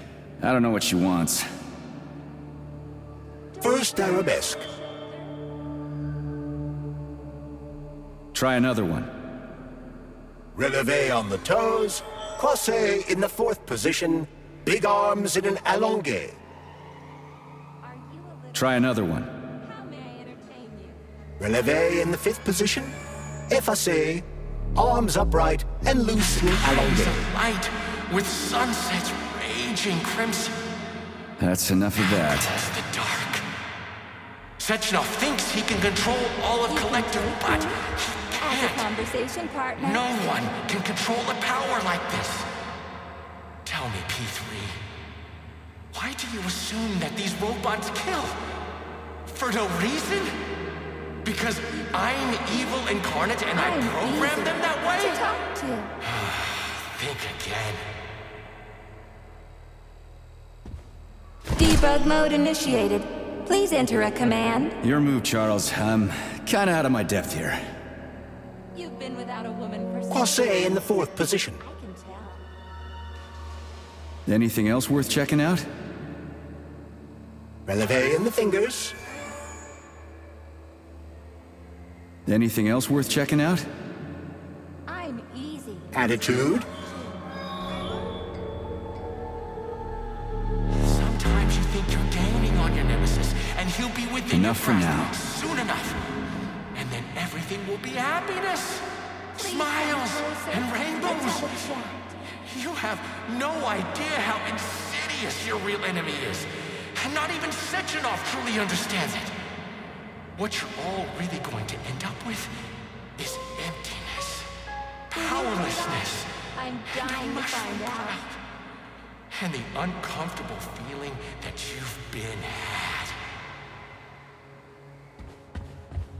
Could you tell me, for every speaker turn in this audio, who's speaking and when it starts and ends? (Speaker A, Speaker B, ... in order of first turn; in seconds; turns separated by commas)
Speaker A: 0.4-1.4, Speaker B: 3.5-5.2, Speaker C: 3.6-4.7, Speaker A: 8.3-9.1, Speaker C: 10.5-16.4, Speaker B: 17.8-18.7, Speaker A: 18.5-19.3, Speaker B: 19.6-21.0, Speaker C: 21.4-22.9, Speaker C: 23.5-27.2, Speaker D: 26.4-30.5, Speaker A: 31.4-32.5, Speaker D: 32.0-33.4, Speaker D: 34.6-38.9, Speaker B: 36.7-37.9, Speaker B: 38.4-40.0, Speaker D: 39.8-42.5, Speaker D: 43.6-44.8, Speaker D: 45.9-48.4, Speaker D: 49.3-50.3, Speaker D: 51.2-55.3, Speaker B: 53.5-55.9, Speaker D: 56.0-57.8, Speaker B: 61.6-64.7, Speaker A: 64.8-67.6, Speaker B: 68.7-70.9, Speaker C: 70.1-71.6, Speaker B: 71.6-72.4, Speaker A: 74.2-75.7, Speaker C: 77.7-78.9, Speaker A: 82.3-83.7, Speaker B: 84.9-85.9, Speaker C: 85.9-86.7, Speaker D: 90.8-96.0, Speaker A: 94.3-95.2, Speaker D: 96.7-101.6, Speaker B: 99.4-102.1, Speaker D: 102.3-109.3, Speaker D: 110.4-112.6, Speaker D: 113.2-114.5, Speaker D: 115.1-116.3, Speaker B: 115.1-118.2, Speaker D: 116.9-118.4, Speaker D: 119.3-123.2